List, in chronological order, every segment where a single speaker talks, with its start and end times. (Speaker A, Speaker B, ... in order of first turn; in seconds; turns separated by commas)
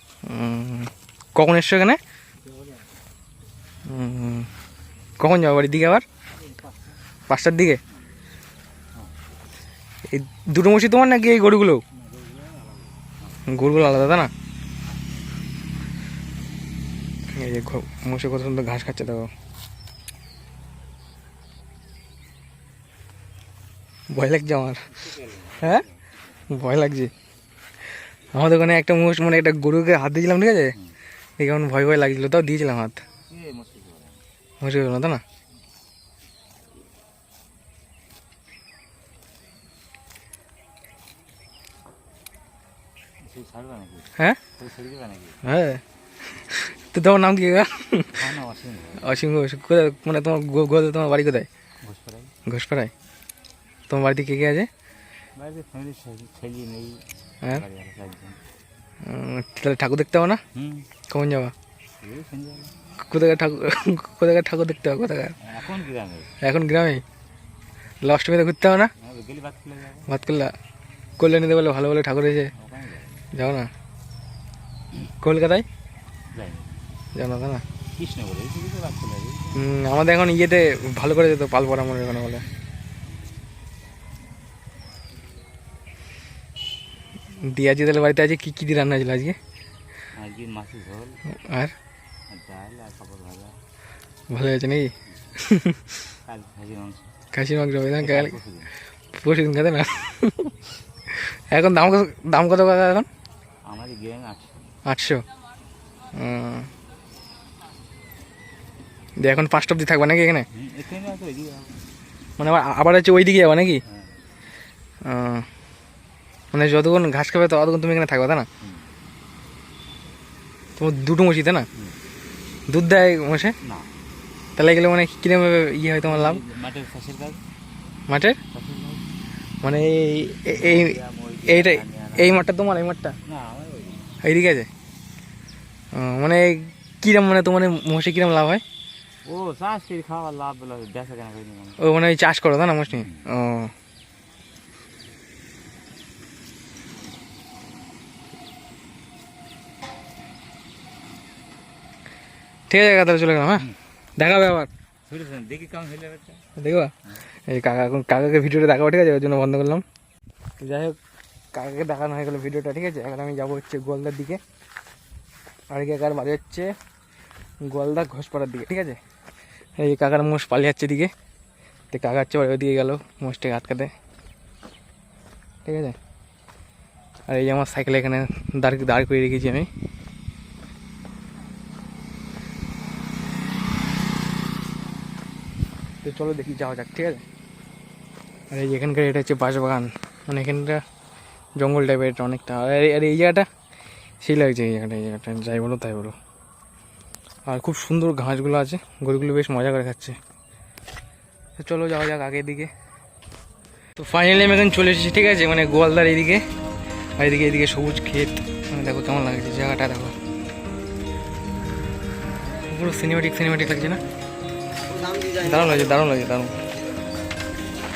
Speaker A: 0.2-2.0, Speaker B: 2.4-2.9, Speaker A: 3.9-4.5, Speaker A: 5.2-6.0, Speaker B: 6.3-7.0, Speaker A: 7.3-7.8, Speaker A: 10.1-11.8, Speaker B: 11.9-13.4, Speaker A: 13.5-14.3, Speaker A: 17.3-19.3, Speaker A: 24.1-24.8, Speaker B: 24.9-26.1, Speaker A: 26.5-27.1, Speaker A: 28.3-30.7, Speaker A: 31.4-33.0, Speaker B: 33.3-34.2, Speaker A: 34.6-35.2, Speaker B: 43.2-45.4, Speaker A: 45.4-45.8, Speaker A: 46.5-48.2, Speaker B: 48.1-49.1, Speaker A: 49.0-51.5, Speaker B: 51.8-52.3, Speaker A: 52.5-52.9, Speaker A: 53.9-54.7, Speaker B: 55.4-58.4, Speaker A: 59.0-60.4, Speaker B: 60.5-60.9, Speaker A: 61.1-61.5, Speaker B: 62.0-62.7, Speaker A: 63.1-65.3, Speaker B: 65.4-66.3, Speaker A: 66.4-67.0, Speaker A: 68.0-68.9, Speaker B: 69.0-70.1, Speaker A: 70.1-70.5, Speaker A: 71.2-72.5, Speaker B: 72.5-73.3, Speaker A: 73.3-73.7, Speaker A: 75.2-75.7, Speaker B: 76.3-76.9, Speaker A: 77.1-77.6, Speaker B: 77.9-79.7, Speaker A: 79.5-82.4, Speaker A: 87.4-89.4, Speaker B: 90.2-91.2, Speaker A: 91.3-91.7, Speaker B: 92.3-93.5, Speaker A: 94.3-95.8, Speaker B: 96.2-97.1, Speaker A: 97.3-98.4, Speaker B: 98.0-98.7, Speaker A: 99.1-100.5, Speaker A: 101.1-103.1, Speaker B: 103.7-104.7, Speaker A: 104.8-105.2, Speaker A: 106.1-106.7, Speaker A: 109.2-110.5, Speaker B: 110.5-111.8, Speaker A: 112.4-113.8, Speaker B: 113.9-114.2, Speaker A: 115.0-115.5, Speaker A: 116.5-118.5, Speaker B: 118.6-118.9, Speaker A: 120.8-121.7, Speaker A: 122.7-123.5, Speaker B: 123.6-123.9, Speaker A: 124.6-126.4, Speaker B: 126.0-127.4, Speaker A: 128.1-128.4, Speaker B: 128.5-129.0, Speaker A: 129.6-133.2, Speaker B: 130.5-132.3, Speaker B: 133.2-134.1, Speaker A: 134.2-134.7, Speaker A: 135.9-138.6, Speaker B: 139.2-141.8, Speaker A: 141.8-143.7, Speaker B: 142.9-143.2, Speaker A: 152.7-154.7, Speaker B: 155.1-156.4, Speaker A: 156.6-156.9, Speaker A: 157.5-159.8, Speaker A: 160.6-161.0, Speaker A: 161.5-164.4, Speaker A: 165.7-166.7, Speaker A: 167.7-169.0, Speaker A: 169.8-171.1, Speaker A: 171.9-173.9, Speaker A: 175.6-175.9, Speaker A: 177.3-179.7, Speaker A: 186.0-187.2, Speaker A: 188.5-190.8, Speaker A: 191.6-193.5, Speaker A: 194.2-196.2, Speaker A: 197.4-200.2, Speaker A: 201.6-202.7, Speaker A: 204.0-206.4, Speaker A: 207.2-210.2, Speaker A: 212.7-214.0, Speaker A: 215.3-216.5